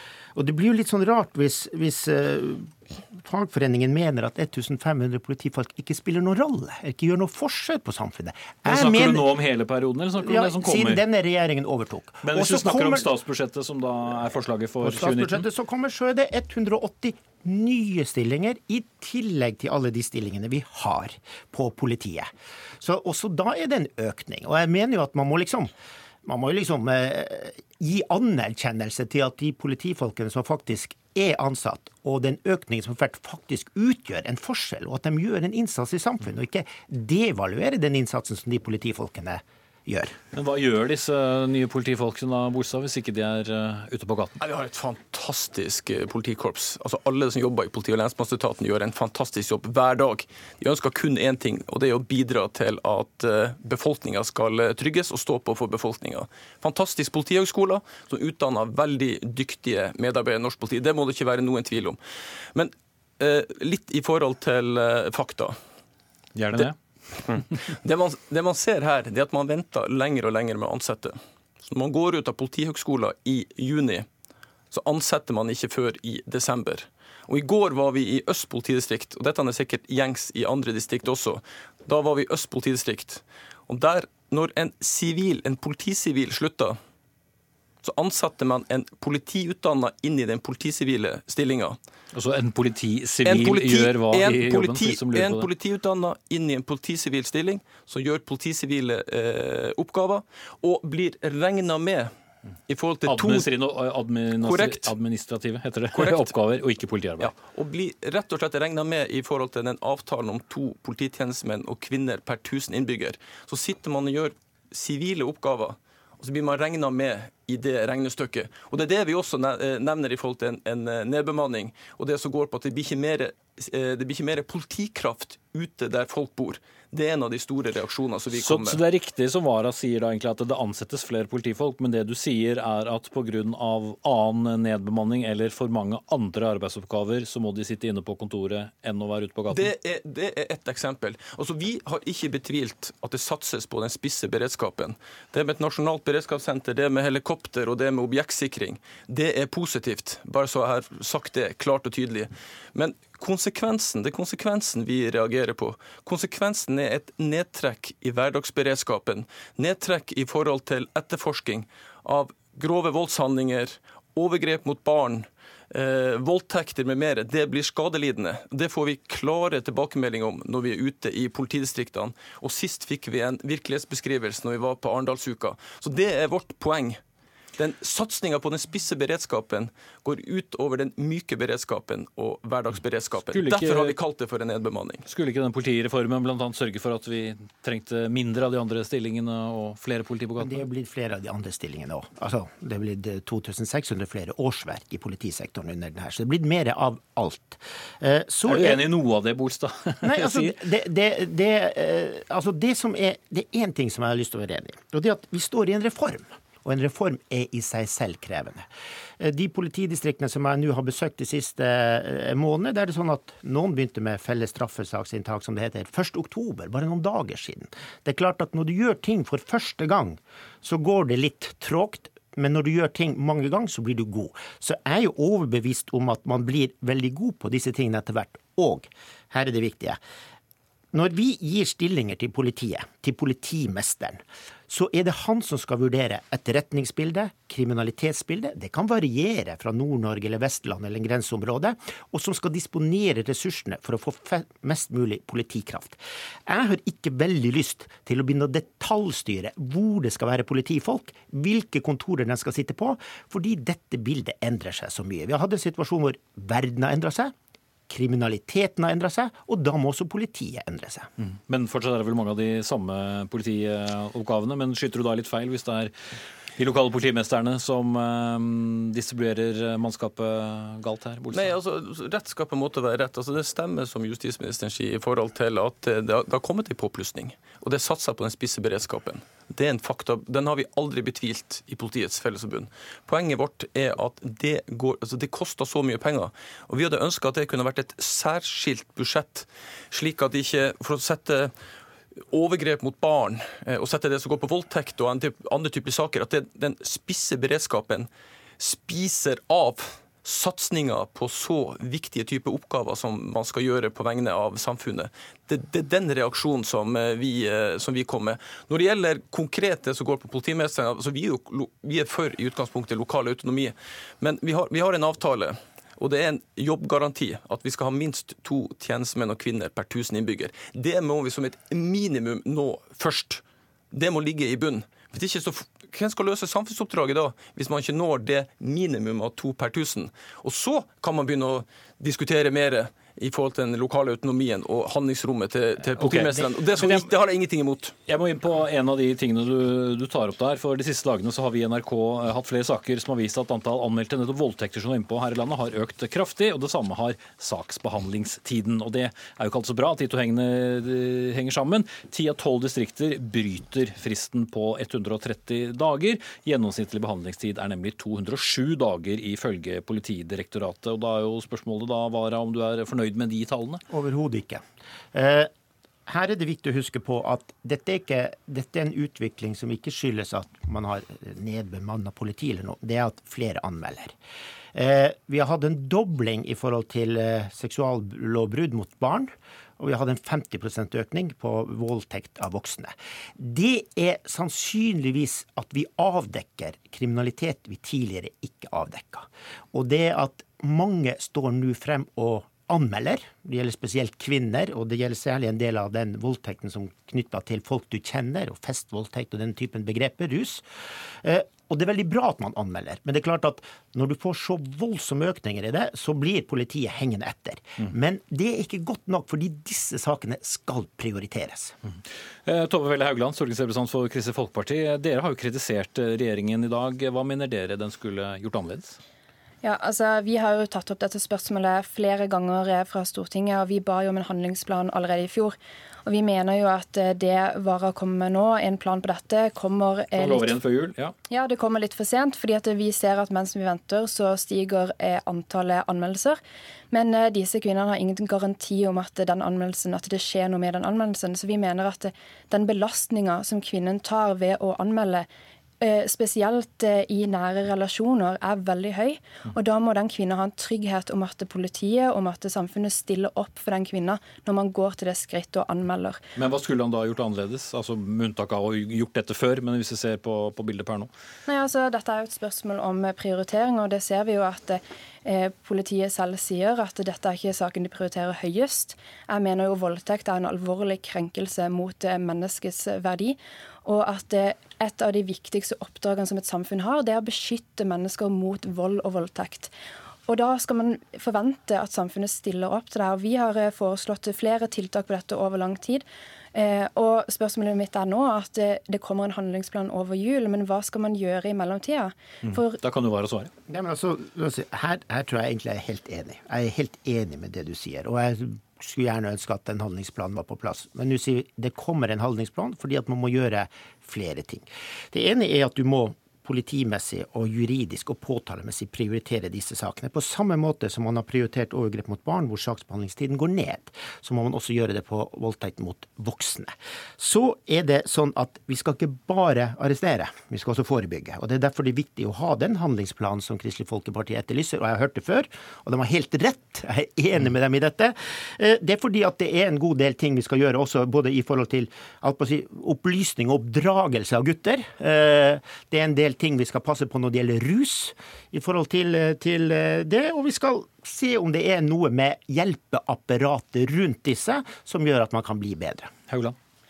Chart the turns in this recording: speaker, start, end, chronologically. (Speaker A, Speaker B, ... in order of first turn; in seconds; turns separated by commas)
Speaker A: 0.3-9.3, Speaker B: 8.7-11.0, Speaker A: 10.2-13.1, Speaker B: 12.2-15.4, Speaker A: 14.8-22.3, Speaker A: 22.8-25.7, Speaker A: 26.2-40.2, Speaker B: 40.3-44.4, Speaker C: 44.4-62.0, Speaker C: 62.5-65.6, Speaker B: 66.3-66.8, Speaker C: 66.5-74.1, Speaker C: 74.7-86.8, Speaker C: 87.8-91.8, Speaker B: 92.1-95.5, Speaker C: 93.2-102.1, Speaker C: 102.7-103.5, Speaker B: 103.1-107.3, Speaker C: 104.4-104.9, Speaker C: 105.9-106.3, Speaker C: 107.2-128.8, Speaker B: 128.3-139.7, Speaker C: 139.5-177.0, Speaker C: 177.6-185.1, Speaker B: 183.3-184.0, Speaker B: 185.1-190.6, Speaker A: 190.4-198.8, Speaker B: 198.5-200.6, Speaker A: 200.0-208.7, Speaker A: 209.2-230.0, Speaker A: 230.9-257.3, Speaker A: 257.9-261.1, Speaker B: 261.2-265.9, Speaker B: 266.6-271.6, Speaker C: 271.3-291.5, Speaker C: 292.3-338.0, Speaker B: 335.9-337.1, Speaker B: 338.1-363.8, Speaker A: 363.9-365.5, Speaker A: 366.1-374.1, Speaker A: 374.7-400.6, Speaker A: 401.2-411.8, Speaker B: 412.5-419.0, Speaker D: 419.6-430.6, Speaker B: 430.1-431.1, Speaker D: 431.3-436.4, Speaker D: 436.9-445.3, Speaker D: 445.8-456.2, Speaker B: 456.4-461.1, Speaker D: 461.5-479.7, Speaker D: 480.3-486.0, Speaker D: 486.6-492.8, Speaker B: 492.4-493.5, Speaker A: 493.7-546.1, Speaker B: 546.3-546.5